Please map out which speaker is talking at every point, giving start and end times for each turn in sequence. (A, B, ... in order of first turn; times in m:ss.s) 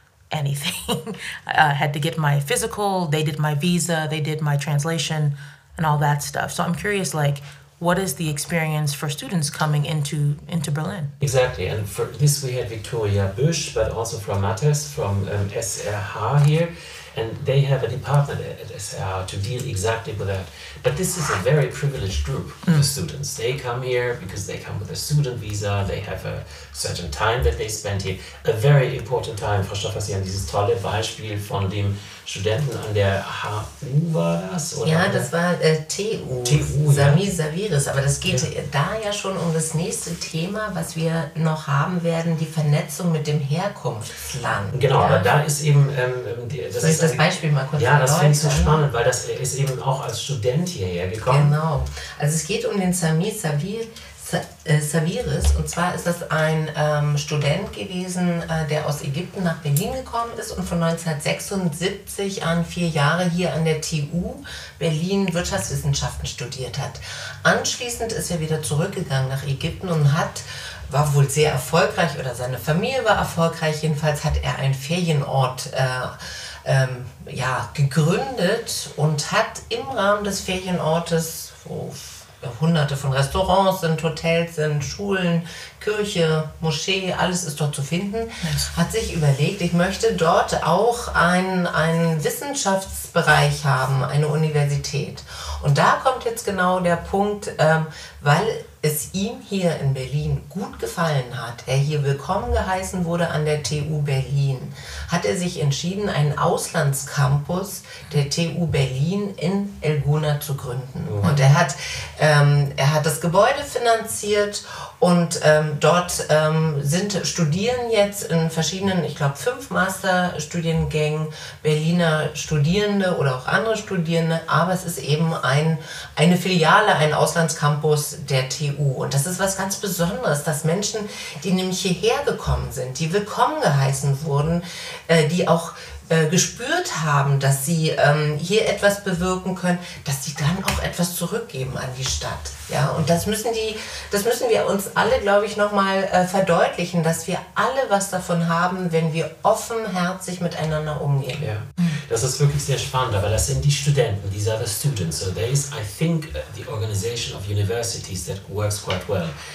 0:00.3-0:11.1 A
0:11.2-0:35.3 B
0:34.8-0:45.2 C
0:36.4-0:37.2 B
0:44.7-0:51.5 B
0:46.8-0:48.8 C
0:51.3-2:31.5 C
1:28.4-1:28.7 A
1:51.0-1:51.4 B
2:31.4-2:39.3 B